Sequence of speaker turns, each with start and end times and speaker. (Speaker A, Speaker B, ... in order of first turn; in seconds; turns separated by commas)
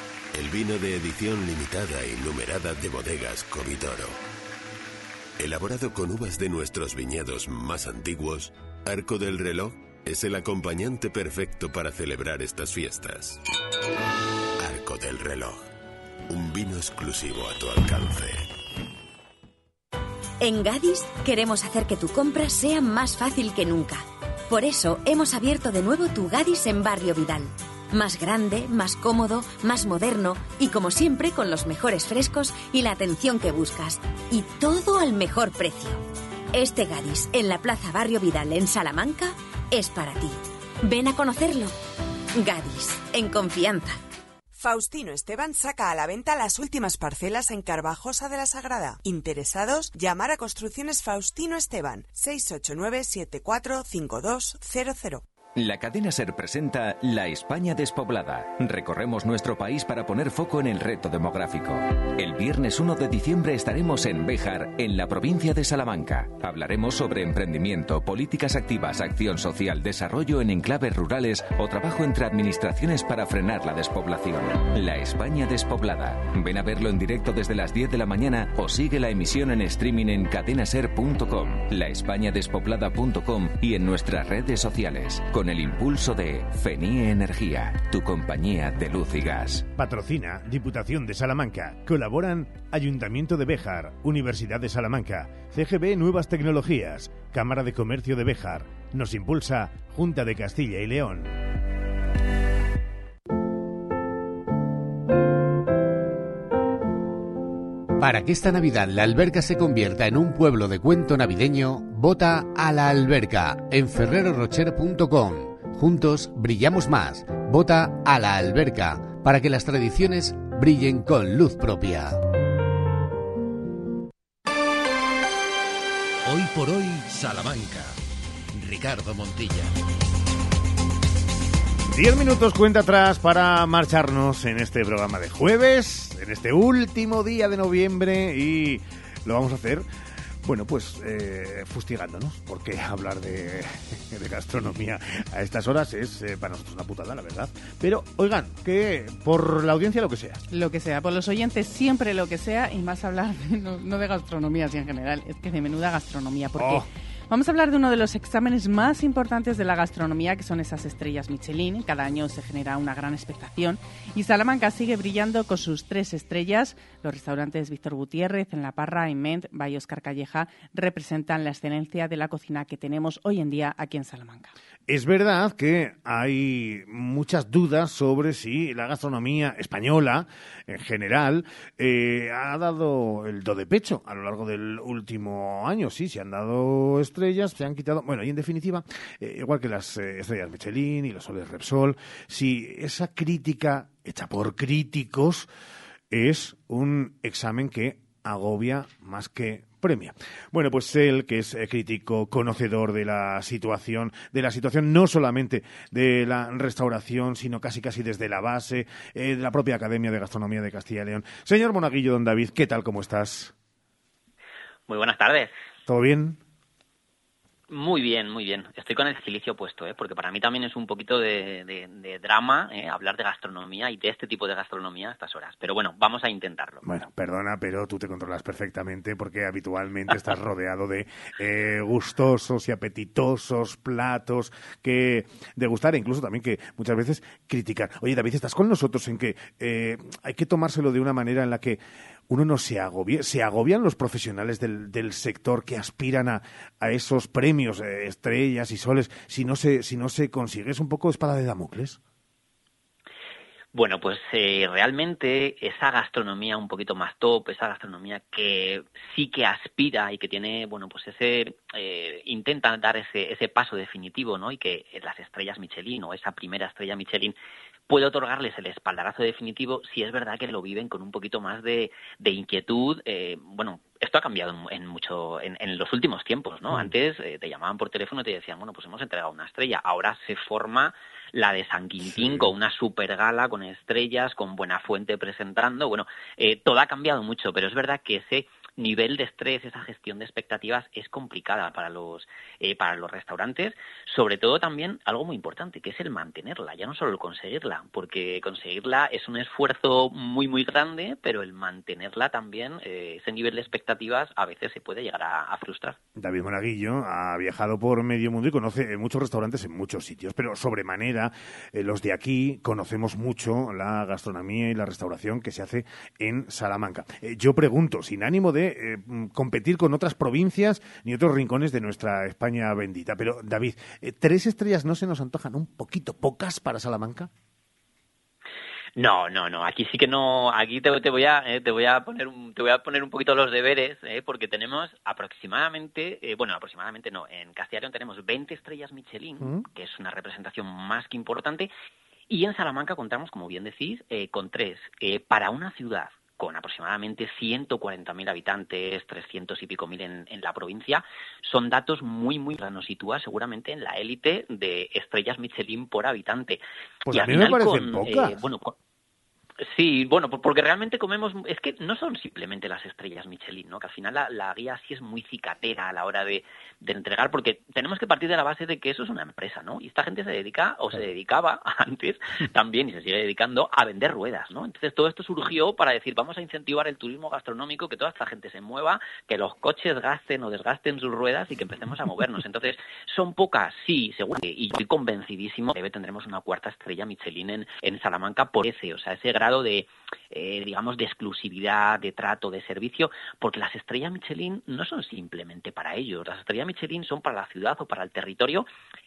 Speaker A: 0.3-4.2, Speaker A: 5.4-13.4, Speaker A: 14.6-15.6, Speaker A: 16.3-18.5, Speaker B: 20.4-36.0, Speaker B: 36.5-41.7, Speaker B: 42.4-44.0, Speaker C: 44.5-55.2, Speaker D: 55.5-89.7, Speaker E: 89.8-101.3, Speaker F: 108.0-122.2, Speaker G: 126.2-128.0, Speaker G: 128.5-129.7, Speaker E: 131.9-139.8, Speaker E: 140.4-150.4, Speaker H: 150.5-174.5, Speaker E: 156.6-156.8, Speaker E: 174.9-195.5, Speaker E: 196.1-213.5, Speaker I: 214.9-215.5, Speaker E: 215.9-216.4, Speaker I: 217.7-226.8, Speaker E: 226.8-252.0, Speaker I: 253.7-267.3, Speaker I: 267.9-306.0, Speaker E: 282.1-282.5, Speaker E: 306.2-327.3, Speaker I: 329.0-341.7, Speaker I: 342.3-358.7, Speaker E: 357.1-358.4, Speaker I: 359.6-398.7